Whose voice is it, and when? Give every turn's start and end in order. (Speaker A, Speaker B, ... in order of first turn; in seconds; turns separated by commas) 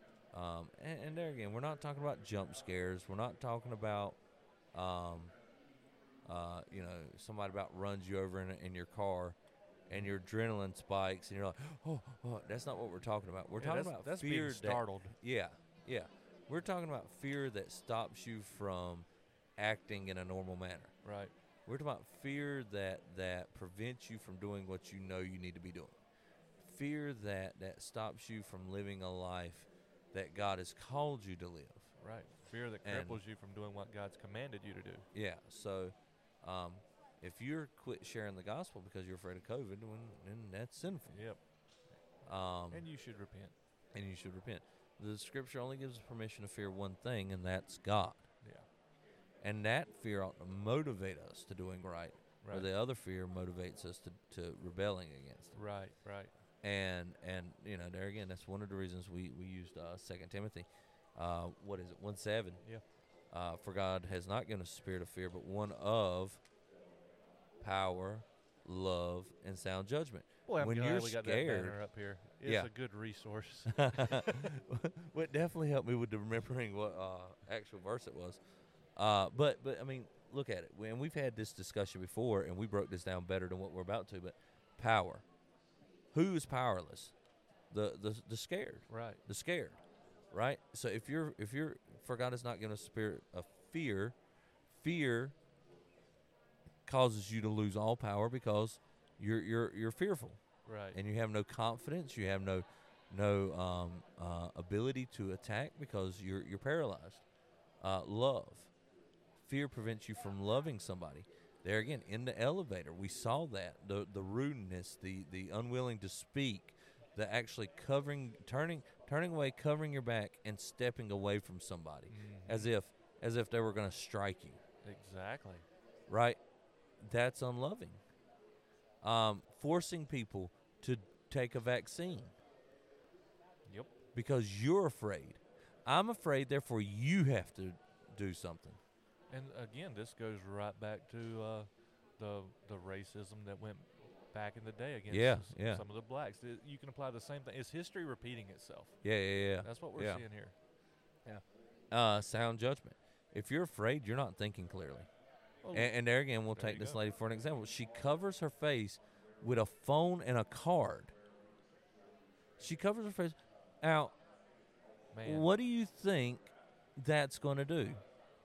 Speaker A: 0.3-4.2, Speaker A: 4.7-5.3, Speaker A: 6.3-9.4, Speaker A: 9.9-20.9, Speaker B: 13.6-15.1, Speaker B: 21.0-21.3, Speaker A: 21.6-26.0, Speaker A: 26.6-31.9, Speaker B: 32.0-35.1, Speaker A: 32.8-33.2, Speaker A: 35.1-41.2, Speaker B: 41.1-41.4, Speaker A: 42.2-42.9, Speaker B: 42.7-43.5, Speaker A: 43.9-48.3, Speaker B: 48.4-48.7, Speaker A: 49.4-55.6, Speaker B: 52.4-52.7, Speaker B: 55.5-56.3, Speaker A: 56.6-62.6, Speaker A: 63.3-66.4, Speaker A: 67.6-71.8, Speaker B: 70.5-74.5, Speaker A: 72.4-72.7, Speaker A: 73.7-78.4, Speaker A: 79.0-85.2, Speaker A: 86.1-87.1, Speaker A: 87.7-89.8, Speaker B: 88.9-89.2, Speaker A: 90.3-94.2, Speaker A: 94.7-95.3, Speaker A: 96.8-100.4, Speaker B: 100.6-101.0, Speaker A: 100.9-107.2, Speaker A: 107.8-108.7, Speaker A: 109.4-124.6, Speaker B: 122.1-122.7, Speaker B: 124.8-125.7, Speaker A: 126.1-126.4, Speaker A: 127.0-128.0, Speaker A: 129.0-132.4, Speaker B: 133.7-133.9, Speaker A: 134.1-138.8, Speaker B: 139.3-149.0, Speaker A: 145.1-145.8, Speaker A: 149.0-150.2, Speaker B: 149.6-150.6, Speaker A: 151.2-155.1, Speaker B: 155.6-155.9, Speaker A: 155.7-161.1, Speaker B: 156.5-157.0, Speaker A: 162.6-164.1, Speaker B: 165.1-165.5, Speaker A: 165.2-168.0